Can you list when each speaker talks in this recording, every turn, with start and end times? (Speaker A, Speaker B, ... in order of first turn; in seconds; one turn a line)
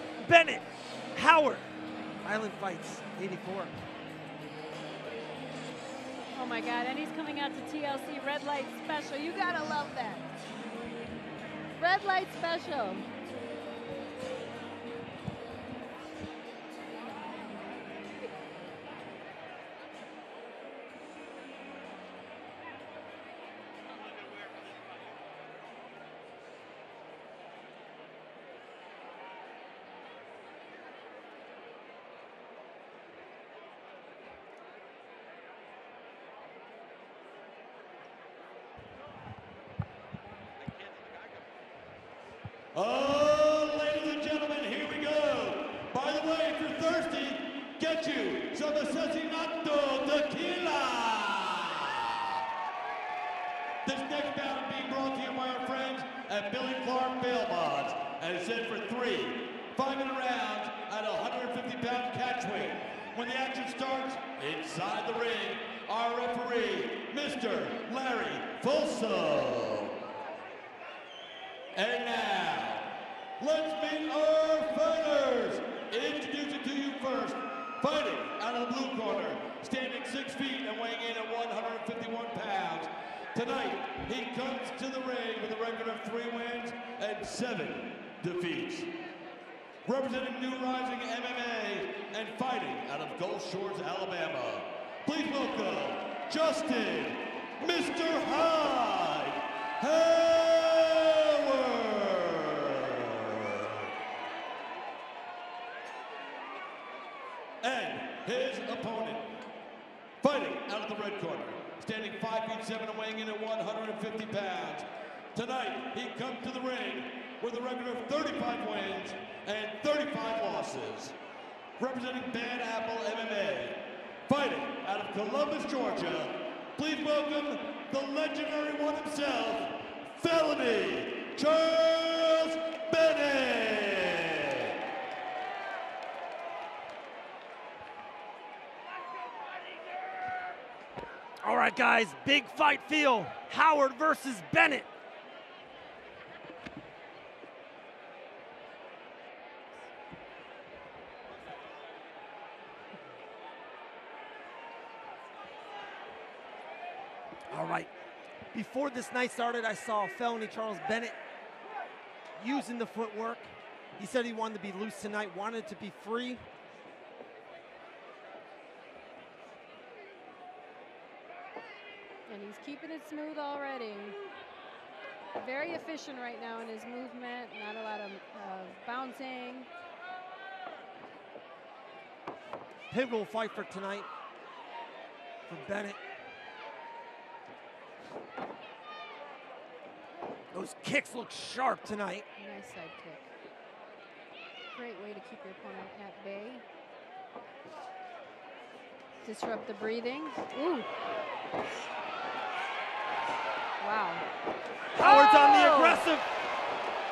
Speaker A: 0.2-1.6
Speaker A: 2.2-3.7
Speaker B: 6.3-10.2
Speaker B: 11.8-13.1
Speaker C: 42.7-52.4
Speaker C: 53.8-70.0
Speaker C: 71.7-89.0
Speaker C: 89.8-103.9
Speaker C: 107.6-109.4
Speaker C: 110.2-121.1
Speaker C: 121.8-134.7
Speaker A: 141.4-144.9
Speaker A: 157.5-157.9
Speaker A: 158.5-161.2
Speaker A: 162.4-166.4
Speaker B: 172.3-174.2
Speaker B: 175.4-179.7
Speaker A: 182.9-184.1
Speaker A: 185.5-186.0
Speaker A: 190.5-192.2
Speaker B: 192.4-193.2
Speaker B: 194.7-196.6
Speaker B: 199.2-200.9
Speaker B: 203.8-204.2
Speaker A: 204.9-206.3
Speaker B: 205.0-206.1